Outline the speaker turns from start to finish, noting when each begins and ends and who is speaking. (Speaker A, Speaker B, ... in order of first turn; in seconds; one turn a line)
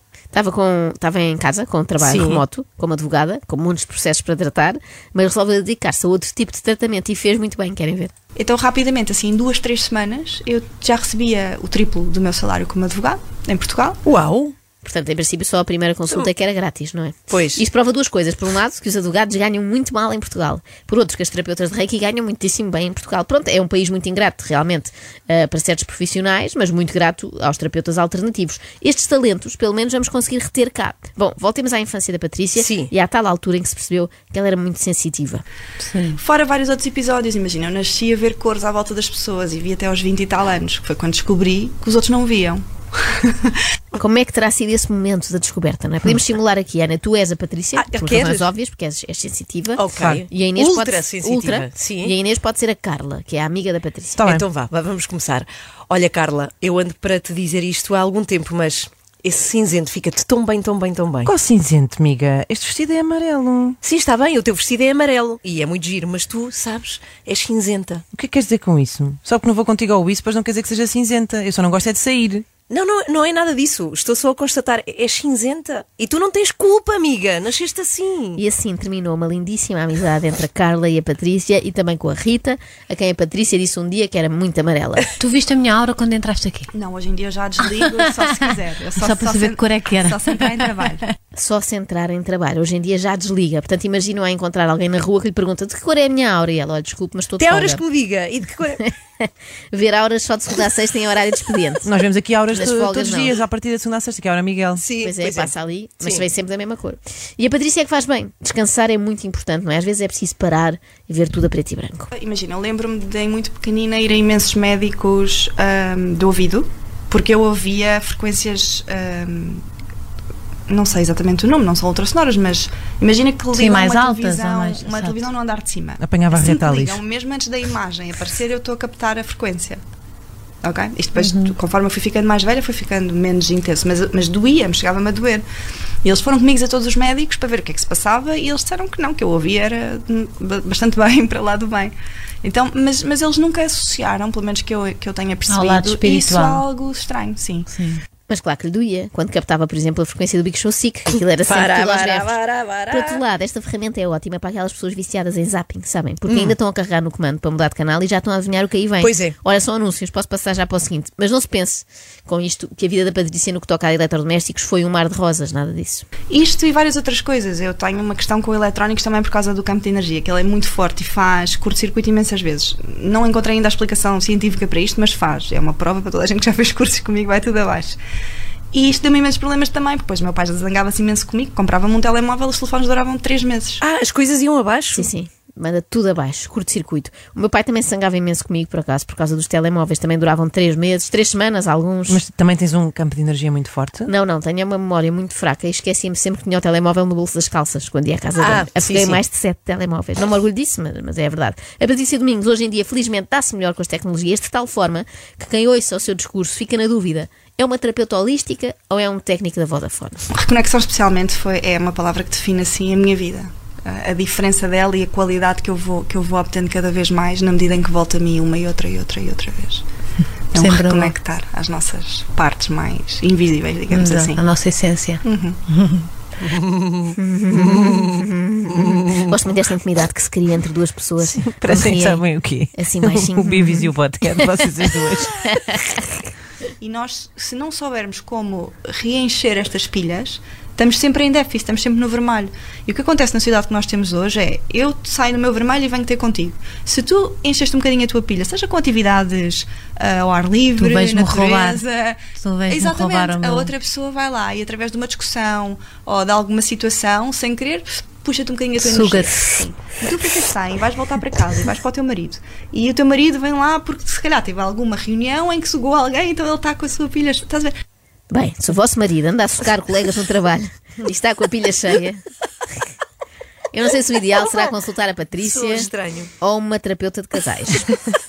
Speaker A: 0.3-8.1
Speaker B: 2.0-2.4
Speaker C: 8.3-14.0
Speaker B: 14.1-14.5
Speaker A: 14.8-35.4
Speaker B: 17.3-17.6
Speaker B: 32.5-32.9
Speaker D: 35.8-36.2
Speaker C: 36.2-43.5
Speaker A: 43.9-54.3
Speaker B: 47.8-48.5
Speaker B: 49.8-52.1
Speaker E: 49.9-50.2
Speaker E: 54.2-54.5
Speaker B: 54.3-61.3
Speaker E: 61.2-63.8
Speaker B: 63.8-68.0
Speaker E: 68.1-72.5
Speaker B: 72.7-78.4
Speaker A: 78.3-85.1
Speaker D: 85.2-86.7
Speaker C: 86.7-91.0
Speaker D: 87.6-90.9
Speaker A: 91.3-97.8
Speaker B: 97.4-98.8
Speaker A: 98.8-101.9
Speaker E: 101.8-104.8
Speaker A: 102.5-103.3
Speaker B: 104.8-106.2
Speaker A: 105.0-112.1
Speaker C: 112.1-119.6
Speaker C: 120.7-129.8
Speaker D: 123.5-125.2
Speaker E: 126.0-127.0
Speaker C: 130.6-135.4
Speaker D: 131.2-131.6
Speaker C: 136.0-147.7
Speaker D: 145.5-146.6
Speaker D: 147.7-148.0
Speaker A: 148.3-152.3
Speaker B: 151.4-153.2
Speaker A: 152.9-166.0
Speaker B: 156.3-156.5
Speaker B: 159.0-159.3
Speaker C: 166.3-178.0
Speaker C: 178.7-183.8
Speaker B: 183.8-185.1
Speaker A: 184.9-192.2
Speaker E: 192.1-194.1
Speaker A: 194.1-210.2
Speaker B: 198.4-199.2
Speaker C: 210.3-219.8
Speaker C: 220.5-224.4
Speaker D: 220.5-221.2
Speaker D: 223.9-226.1
Speaker C: 225.2-225.6
Speaker B: 226.6-227.1
Speaker A: 227.1-234.6
Speaker E: 231.2-235.5
Speaker C: 236.8-267.7
Speaker D: 250.8-251.8
Speaker D: 252.4-253.7
Speaker D: 258.8-259.6
Speaker A: 268.3-272.2
Speaker A: 273.7-278.0
Speaker B: 275.4-276.3